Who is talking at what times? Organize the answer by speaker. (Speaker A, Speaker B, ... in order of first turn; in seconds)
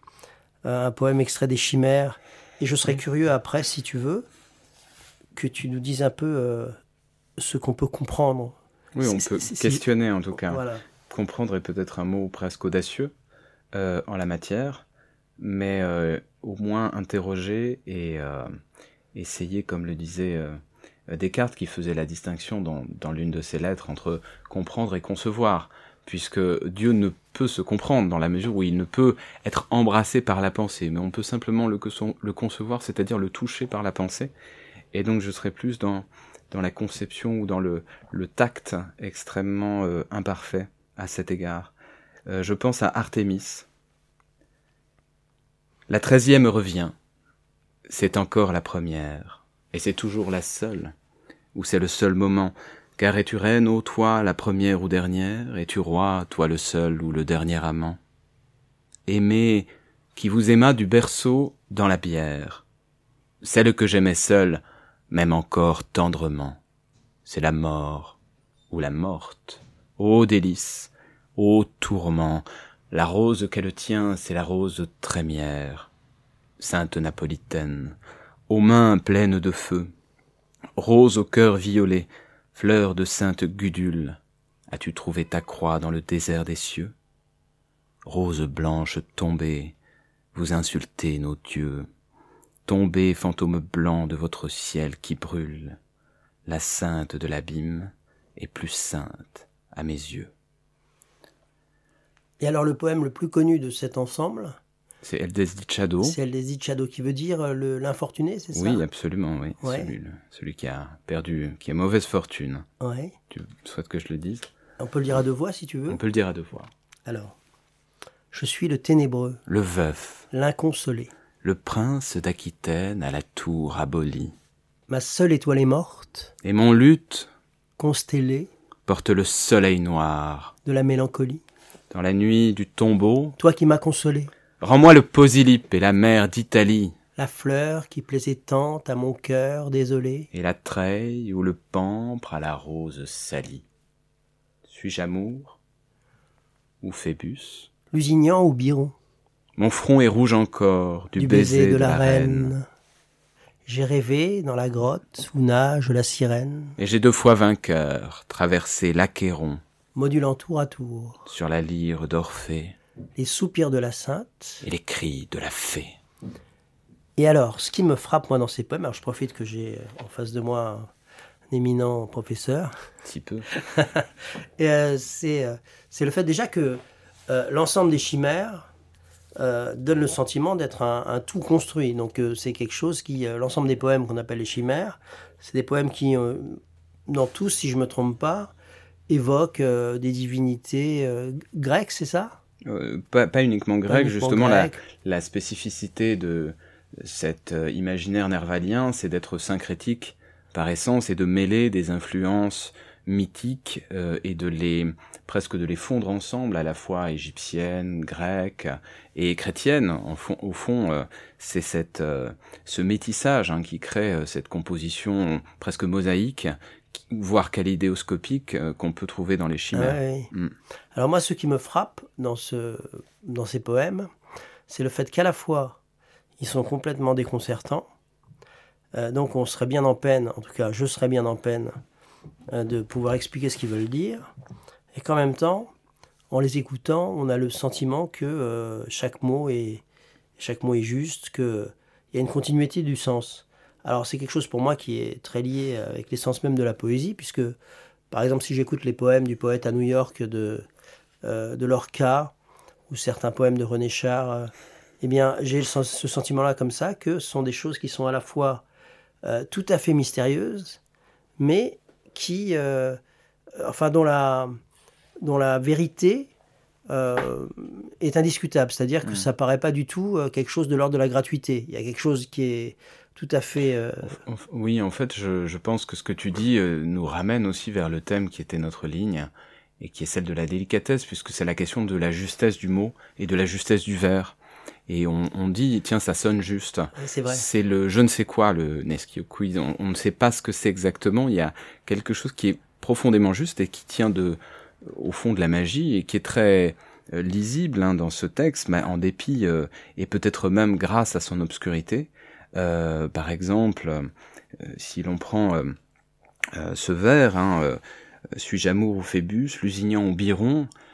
Speaker A: 0.6-4.2, 5.3-6.8, 7.4-9.8, 10.5-10.8, 102.4-104.6, 106.0-108.8, 109.6-109.9, 112.8-113.1, 114.8-116.0, 117.0-117.4, 118.3-119.4, 120.3-121.1, 124.9-126.3, 127.8-128.5, 130.6-131.4, 133.4-134.3, 137.2-140.3, 147.9-148.9, 151.2-152.7, 153.7-156.8, 159.9-161.2, 163.2-164.6, 167.2-170.9, 171.5-172.8, 173.6-178.7, 179.3-188.5, 189.1-192.4, 193.9-194.8, 219.7-220.3, 220.9-224.1, 224.7-225.8, 226.4-227.9, 228.9-231.8, 232.5-234.3, 234.9-235.7, 236.3-239.8, 240.4-247.6, 248.1-250.7, 251.2-252.3, 252.9-258.6, 259.2-260.8, 261.4-263.0, 263.6-264.6, 265.2-266.3, 266.9-274.2, 286.9-287.4
Speaker B: 8.9-13.1, 13.7-14.8, 15.4-18.6, 19.1-34.3, 34.9-41.7, 42.3-43.7, 45.9-47.0, 47.9-50.9, 51.5-58.0, 59.1-62.6, 63.4-66.6, 67.2-68.2, 68.7-75.9, 76.6-78.0, 78.5-79.9, 80.8-86.9, 88.0-89.8, 90.3-91.9, 92.7-95.8, 96.5-100.3, 105.0-106.2, 108.5-112.7, 113.3-114.5, 115.9-116.7, 119.5-120.3, 121.4-124.3, 126.4-127.3, 128.9-130.5, 131.9-133.4, 134.6-136.9, 140.3-143.6, 144.6-145.6, 146.8-147.7, 149.6-152.5, 156.8-159.6, 161.2-162.8, 164.6-166.0, 173.0-173.5, 192.6-220.5, 274.1-284.4, 284.9-305.8, 306.5-307.8, 308.3-310.7